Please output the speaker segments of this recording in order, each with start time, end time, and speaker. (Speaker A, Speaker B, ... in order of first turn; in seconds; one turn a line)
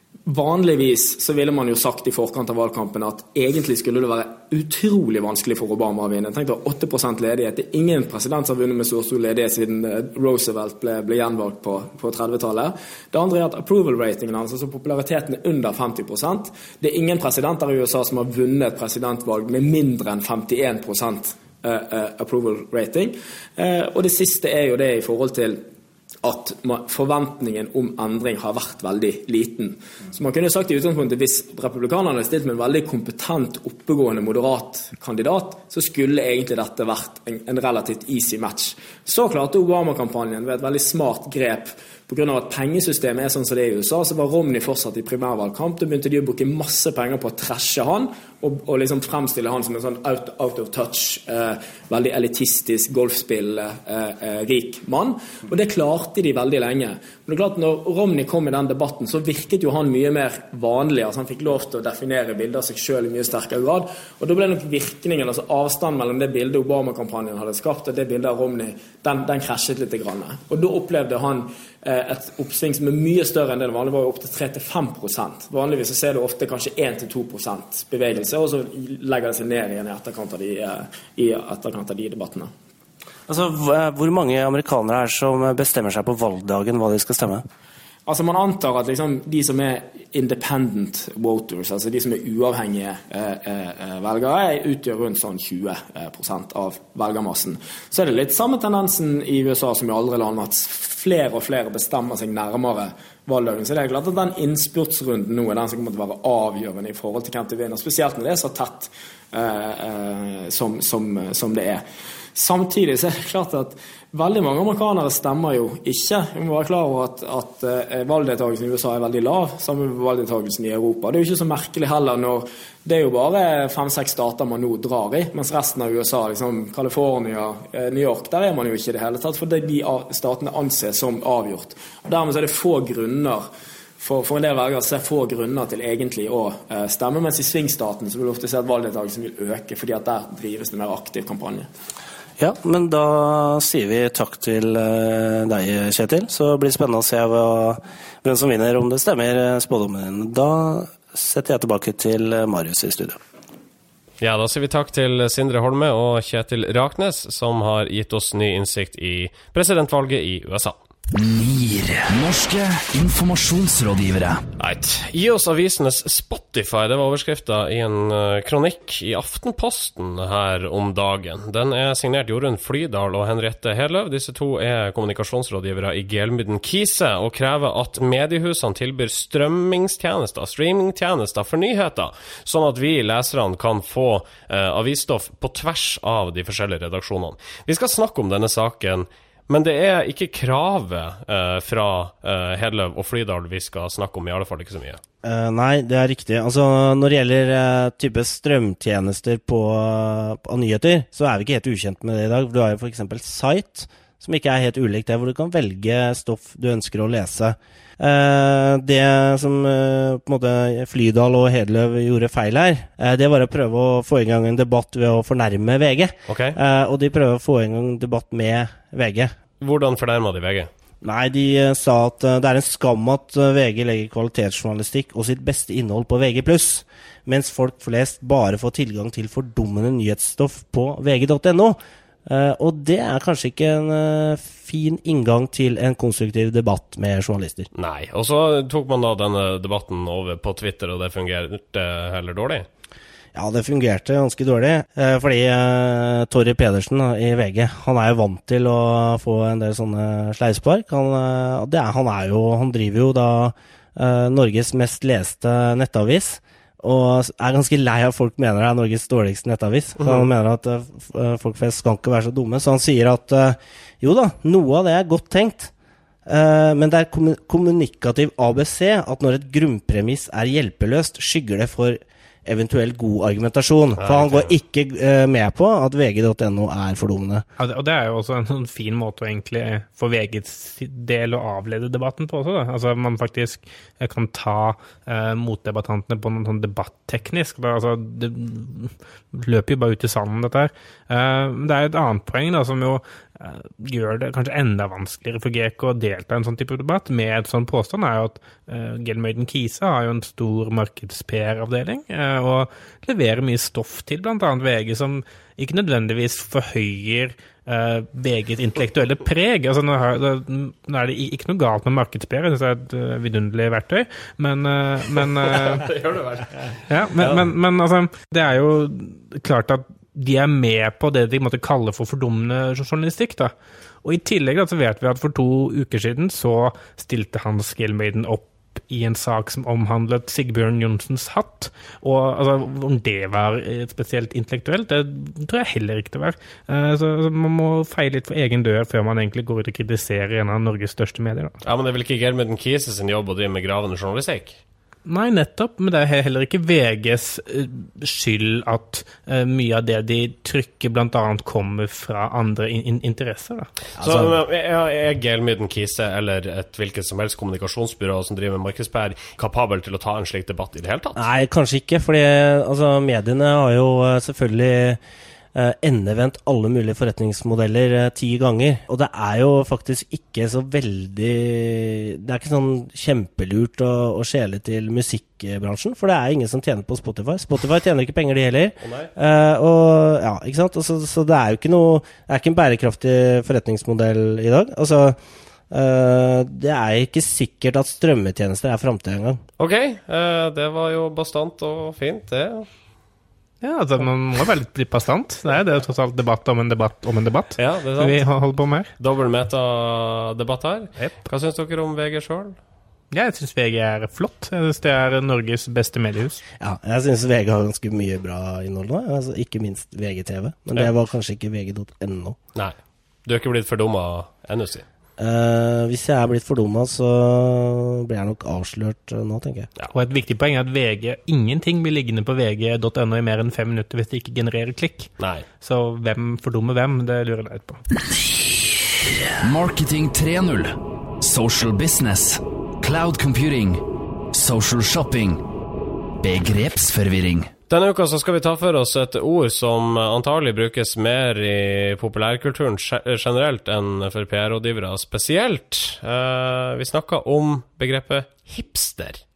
Speaker A: 0.2-25.6
Speaker A: 26.2-82.5
Speaker B: 83.3-87.4
Speaker A: 88.0-111.8
Speaker A: 112.3-133.4
Speaker A: 134.0-141.7
Speaker B: 142.4-153.2
Speaker C: 154.2-160.8
Speaker D: 161.1-164.4
Speaker C: 164.6-195.0
Speaker B: 195.2-219.3
Speaker C: 216.3-216.6
Speaker C: 219.6-220.7
Speaker B: 221.0-237.7
Speaker C: 237.7-242.7
Speaker B: 243.3-265.7
Speaker B: 266.2-277.4
Speaker C: 274.0-274.5
Speaker E: 277.6-315.9
Speaker C: 315.5-317.4
Speaker E: 316.9-323.5
Speaker E: 324.0-341.5
Speaker C: 341.6-344.6
Speaker E: 345.1-353.7
Speaker B: 354.0-354.4
Speaker C: 354.0-361.2
Speaker B: 361.1-365.0
Speaker B: 365.5-385.2
Speaker C: 378.8-379.1
Speaker B: 385.7-389.4
Speaker C: 389.6-392.7
Speaker E: 393.6-398.9
Speaker C: 397.6-398.2
Speaker C: 399.0-402.6
Speaker E: 403.1-406.4
Speaker B: 406.6-412.4
Speaker C: 413.2-414.9
Speaker B: 415.2-419.7
Speaker E: 419.9-427.8
Speaker C: 425.2-425.4
Speaker D: 428.1-428.7
Speaker D: 429.4-435.4
Speaker D: 436.2-437.5
Speaker C: 437.7-449.2